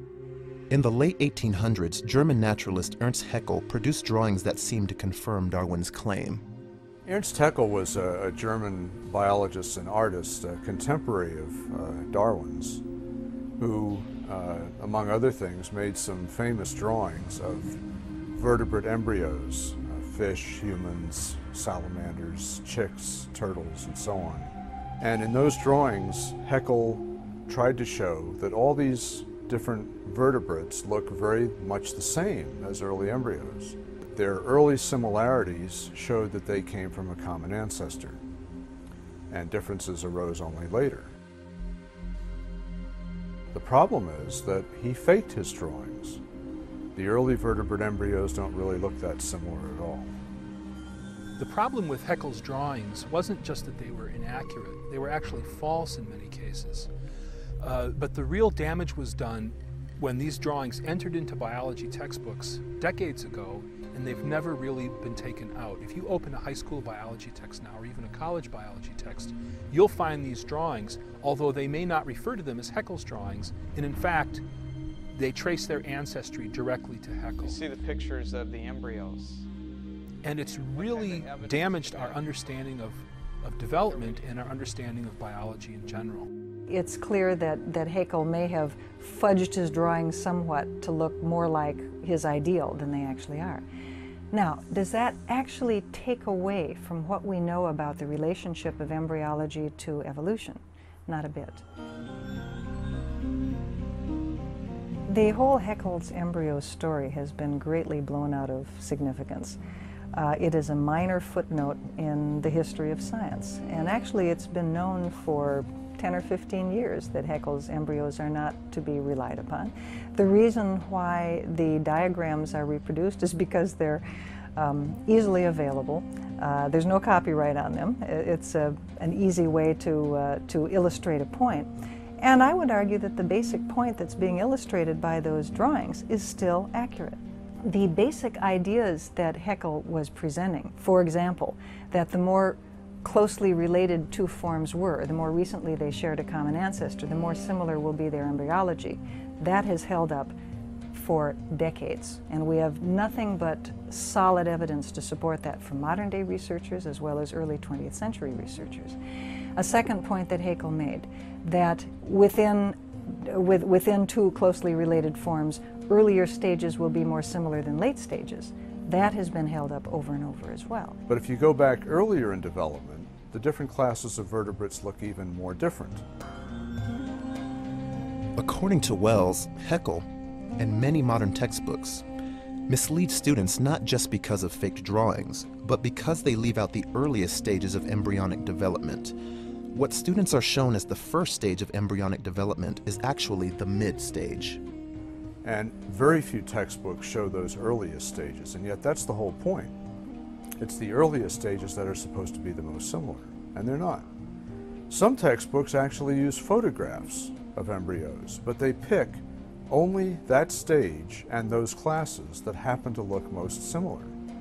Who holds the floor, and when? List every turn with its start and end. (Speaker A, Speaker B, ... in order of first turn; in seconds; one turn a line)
Speaker A: 0.7-6.4
Speaker B: 7.0-12.8
Speaker B: 13.6-17.8
Speaker B: 18.3-38.2
Speaker B: 39.3-41.1
Speaker B: 43.5-46.2
Speaker B: 47.0-50.2
Speaker C: 51.4-56.9
Speaker C: 57.6-74.4
Speaker C: 75.1-77.7
Speaker D: 77.4-79.5
Speaker C: 80.2-86.3
Speaker D: 80.3-82.6
Speaker D: 83.8-84.3
Speaker E: 86.7-93.7
Speaker E: 94.3-101.6
Speaker E: 105.1-109.6
Speaker E: 110.1-124.0
Speaker E: 124.6-150.3
Speaker E: 150.9-159.0
Speaker E: 159.6-171.0
Speaker B: 171.1-176.0
Speaker A: 178.4-180.1
Speaker A: 180.6-182.1
Speaker A: 182.7-189.2
Speaker A: 189.7-194.6
Speaker B: 195.4-199.8
Speaker B: 200.6-204.1
Speaker B: 204.9-214.2